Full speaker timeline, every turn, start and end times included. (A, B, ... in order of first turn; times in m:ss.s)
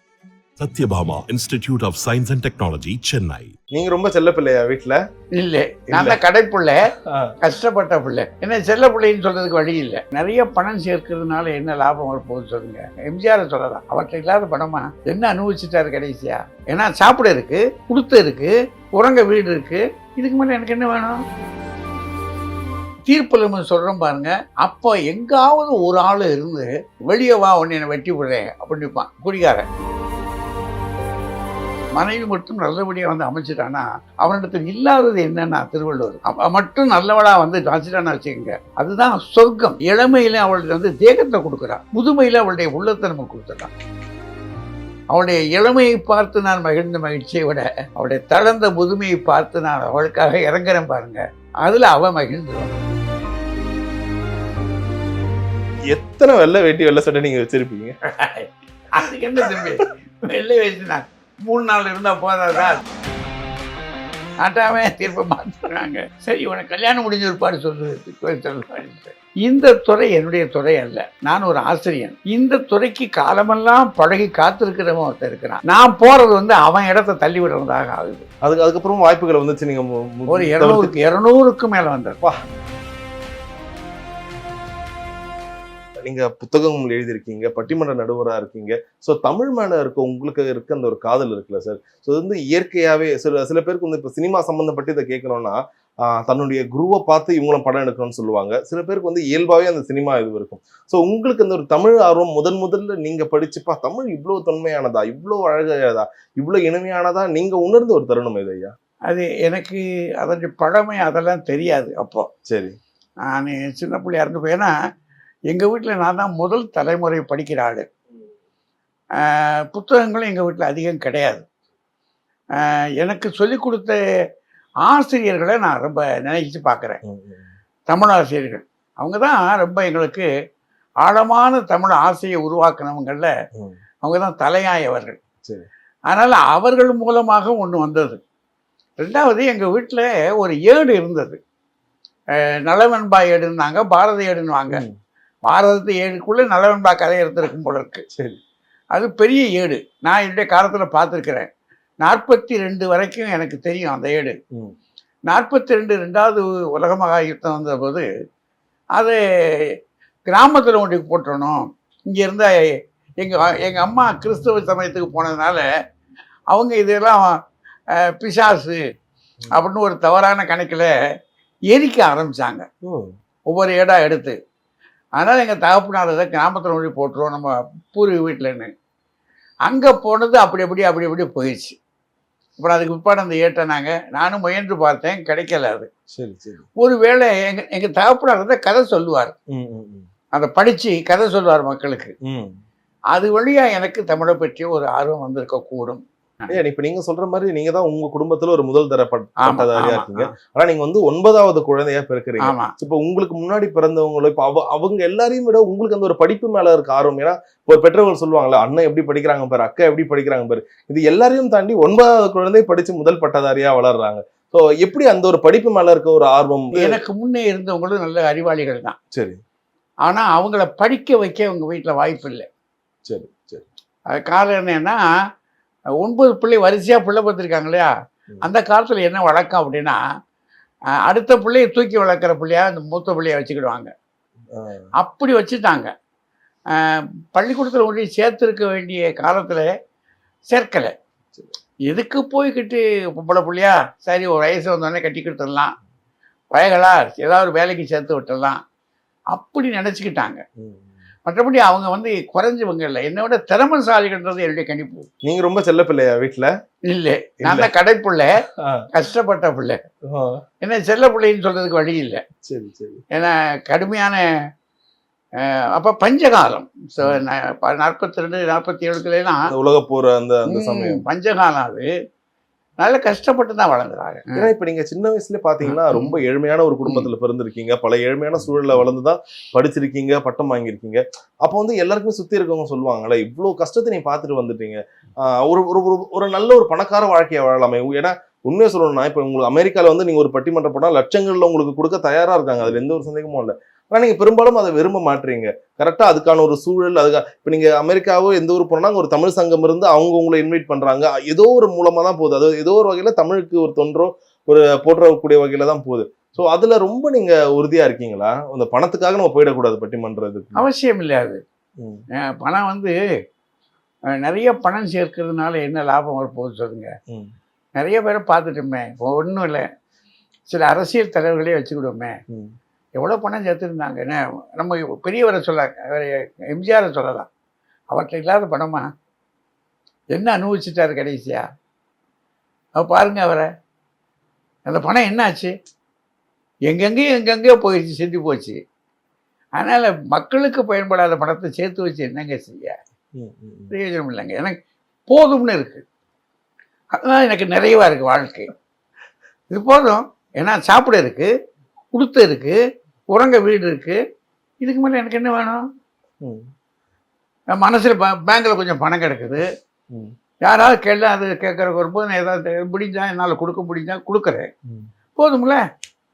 0:00.6-0:03.5 A
0:03.7-0:05.0 B
0:05.4-0:21.2 C
0:05.9-0:06.2 B
0:07.0-0:07.4 B
0:23.1-0:29.7 C
0:31.9-0:43.7 C
0:45.1-0:52.7 C
0:55.9-0:58.0 B
0:58.1-1:02.8 C
1:04.4-1:18.3 C
1:18.4-1:21.0 B
1:20.3-1:22.2 C
1:26.0-1:48.7 B
1:49.1-1:52.3 C
1:52.5-1:52.8 B
1:53.3-1:54.7 C
1:55.5-1:57.9 C
1:59.2-2:01.4 C
2:02.6-2:04.0 C
2:04.8-2:07.0 C
2:07.0-2:07.5 B
2:07.9-2:10.3 C
2:11.0-2:13.3 C
2:14.0-2:15.2 C
2:16.1-2:18.2 C
2:19.0-2:21.4 C
2:22.4-2:24.8 C
2:24.7-2:25.0 B
2:25.5-2:28.1 C
2:28.1-2:28.4 B
2:28.9-2:31.5 C
2:32.0-2:34.4 C
2:35.3-2:38.1 C
2:39.0-2:39.7 C
2:40.3-2:45.7 C
2:46.5-2:47.4 C
2:48.0-2:48.8 C
2:49.5-2:50.9 C
2:51.7-2:52.7 C
2:52.8-2:53.2 B
2:53.5-2:54.4 C
2:55.2-2:58.7 C
2:59.7-3:01.8 C
3:02.6-3:05.9 C
3:06.1-3:06.7 B
3:06.8-3:09.4 C
3:09.5-3:10.1 B
3:10.3-3:12.1 C
3:12.2-3:12.6 B
3:13.1-3:16.6 C
3:16.5-3:37.0 B
3:19.4-3:20.3 C
3:22.4-3:22.7 C
3:36.7-3:39.0 C
3:39.1-3:39.4 B
3:40.0-3:42.5 C
3:43.1-3:43.7 B
3:44.1-3:45.0 C
3:46.0-3:47.9 C
3:48.4-3:50.0 C
3:51.0-3:53.9 C
3:54.5-3:54.9 B
3:55.0-3:55.9 C
3:56.7-3:59.7 C
4:00.5-4:00.9 C
4:01.9-4:05.8 C
4:06.5-4:08.6 C
4:09.3-4:10.4 C
4:10.6-4:10.9 B
4:11.3-4:15.1 C
4:15.2-4:16.5 B
4:16.9-4:19.8 C
4:17.4-4:17.7 B
4:18.5-4:18.9 B
4:20.1-4:20.4 B
4:20.6-4:22.2 C
4:22.4-4:23.0 B
4:23.1-4:24.2 C
4:25.4-4:29.5 C
4:29.5-4:31.0 B
4:30.5-4:31.9 C
4:32.8-4:34.5 C
4:34.3-5:10.6 B
4:35.7-4:36.2 C
5:10.6-5:11.4 C
5:12.2-5:13.0 C
5:14.2-5:16.9 C
5:17.8-5:19.7 C
5:20.5-5:22.2 C
5:22.3-5:22.5 B
5:23.0-5:27.3 C
5:27.9-5:28.9 C
5:30.1-5:31.5 C
5:32.8-5:33.5 C
5:34.7-5:35.5 C
5:36.7-5:38.6 C
5:39.6-5:42.8 C
5:43.2-5:43.7 B
5:43.7-5:44.6 C
5:45.1-5:45.8 C
5:46.9-5:48.5 C
5:49.5-5:51.3 C
5:51.9-5:52.6 C
5:53.1-5:54.0 C
5:54.6-5:55.7 C
5:56.2-5:56.5 B
5:57.5-5:59.4 C
6:00.4-6:04.5 C
6:05.2-6:05.6 C